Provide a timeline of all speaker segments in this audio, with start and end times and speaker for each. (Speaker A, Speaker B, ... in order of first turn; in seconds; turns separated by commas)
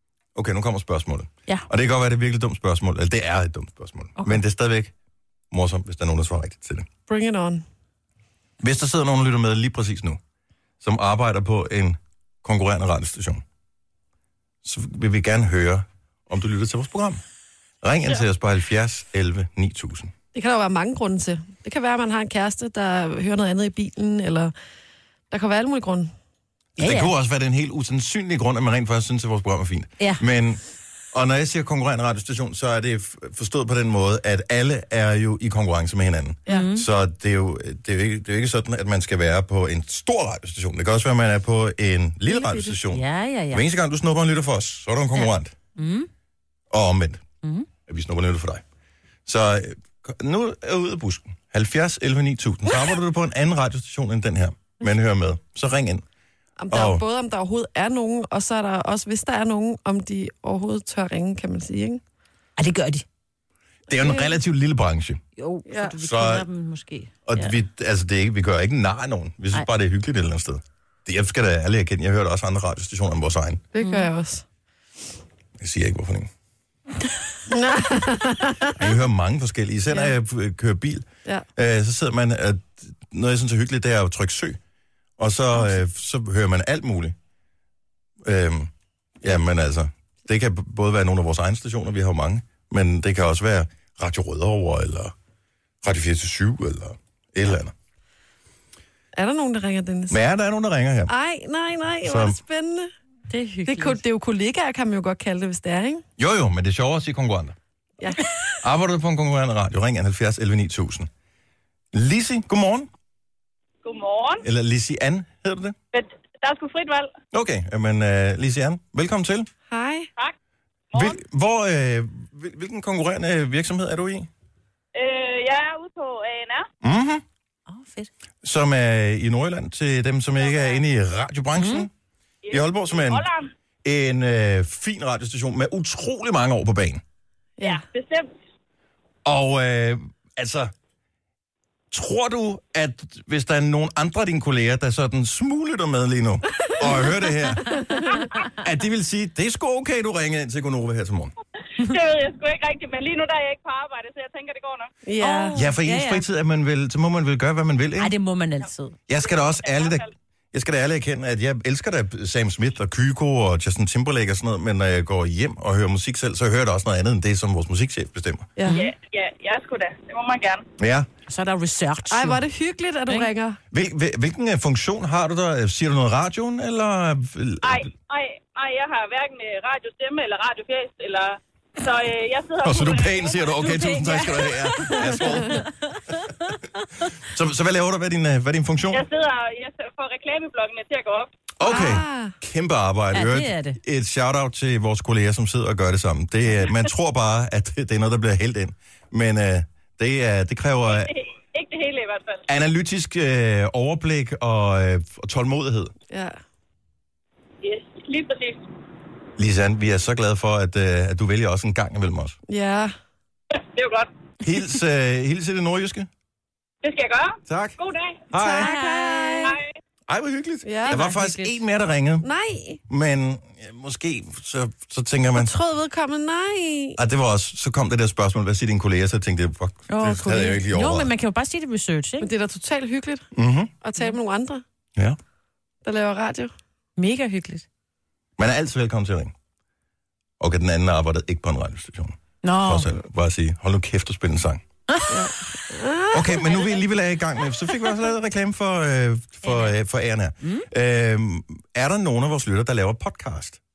Speaker A: 0.3-4.9, Speaker A: 5.5-6.9, Speaker B: 7.1-7.6, Speaker A: 8.6-10.2, Speaker A: 10.8-13.4, Speaker A: 14.6-17.2, Speaker A: 17.8-20.1, Speaker B: 20.3-24.5, Speaker B: 25.3-26.1, Speaker C: 26.8-27.1, Speaker A: 26.8-30.6, Speaker A: 31.1-45.5, Speaker C: 36.5-36.9, Speaker B: 42.3-42.7, Speaker C: 42.9-43.6, Speaker C: 45.1-46.1, Speaker A: 46.7-47.2, Speaker A: 47.9-48.6, Speaker A: 49.2-56.0, Speaker B: 56.6-62.0, Speaker A: 56.7-57.0, Speaker C: 62.6-63.0, Speaker A: 63.9-65.2, Speaker B: 64.0-64.3, Speaker C: 65.4-67.5, Speaker B: 65.7-66.0, Speaker A: 66.0-66.5, Speaker A: 67.2-73.6, Speaker B: 73.7-74.4, Speaker C: 73.8-74.1, Speaker A: 75.6-76.3, Speaker B: 77.5-78.9, Speaker A: 78.8-84.6, Speaker A: 85.2-87.2, Speaker A: 88.2-88.7, Speaker A: 89.2-95.1, Speaker A: 95.8-97.7, Speaker B: 99.1-100.2, Speaker A: 100.1-101.1, Speaker B: 101.1-102.9, Speaker A: 102.0-102.4, Speaker C: 103.3-104.0, Speaker B: 103.7-106.0, Speaker A: 106.2-107.5, Speaker B: 108.0-108.2, Speaker A: 108.6-111.1, Speaker A: 111.9-112.9, Speaker D: 113.8-114.4, Speaker A: 114.4-115.8, Speaker D: 115.9-117.1, Speaker A: 117.3-119.5, Speaker B: 119.7-120.1, Speaker D: 120.9-121.2, Speaker A: 120.9-124.3, Speaker D: 124.9-126.7, Speaker A: 126.8-127.2, Speaker C: 127.7-128.1, Speaker A: 128.4-131.9, Speaker D: 130.4-130.8, Speaker C: 131.6-131.9, Speaker D: 132.4-133.5, Speaker A: 132.5-133.3, Speaker A: 133.8-137.0, Speaker D: 137.6-138.4, Speaker A: 139.2-140.7, Speaker A: 141.9-147.8, Speaker B: 146.7-147.0, Speaker B: 147.9-148.2, Speaker A: 148.5-151.3, Speaker D: 151.8-154.9, Speaker B: 155.0-155.5, Speaker C: 155.2-156.2, Speaker A: 155.5-158.1, Speaker C: 158.0-158.9, Speaker A: 159.1-168.5, Speaker D: 159.2-160.1, Speaker C: 168.7-168.9, Speaker D: 168.7-170.6, Speaker A: 170.8-171.1, Speaker C: 171.3-172.4, Speaker B: 172.1-173.6, Speaker A: 173.7-177.8, Speaker D: 177.6-183.5, Speaker A: 182.6-185.7, Speaker C: 183.6-186.9, Speaker A: 187.1-189.0, Speaker D: 188.9-191.3, Speaker A: 191.6-201.1, Speaker B: 191.6-192.3, Speaker C: 193.1-193.8, Speaker D: 200.8-202.4, Speaker A: 202.5-205.9, Speaker B: 206.1-206.3, Speaker D: 207.6-208.6, Speaker A: 209.4-212.4, Speaker B: 212.5-212.9, Speaker D: 213.5-214.1, Speaker A: 214.4-216.1, Speaker D: 216.8-218.2, Speaker A: 217.5-217.8, Speaker A: 218.3-218.7, Speaker B: 218.3-219.6, Speaker C: 218.6-219.5, Speaker D: 219.4-219.7, Speaker A: 220.1-222.3, Speaker B: 220.6-221.0, Speaker C: 220.9-221.6, Speaker B: 222.2-222.8, Speaker A: 222.9-225.6, Speaker B: 225.3-227.0, Speaker A: 227.0-231.1, Speaker C: 229.9-232.3, Speaker B: 232.2-233.3, Speaker A: 233.3-233.7, Speaker B: 233.8-234.6, Speaker B: 235.8-236.5, Speaker C: 237.0-237.7, Speaker A: 238.4-239.3, Speaker A: 240.4-244.6, Speaker C: 242.4-243.0, Speaker C: 244.9-245.2, Speaker B: 245.1-246.5, Speaker A: 246.1-253.6, Speaker C: 249.4-249.7, Speaker C: 250.4-250.7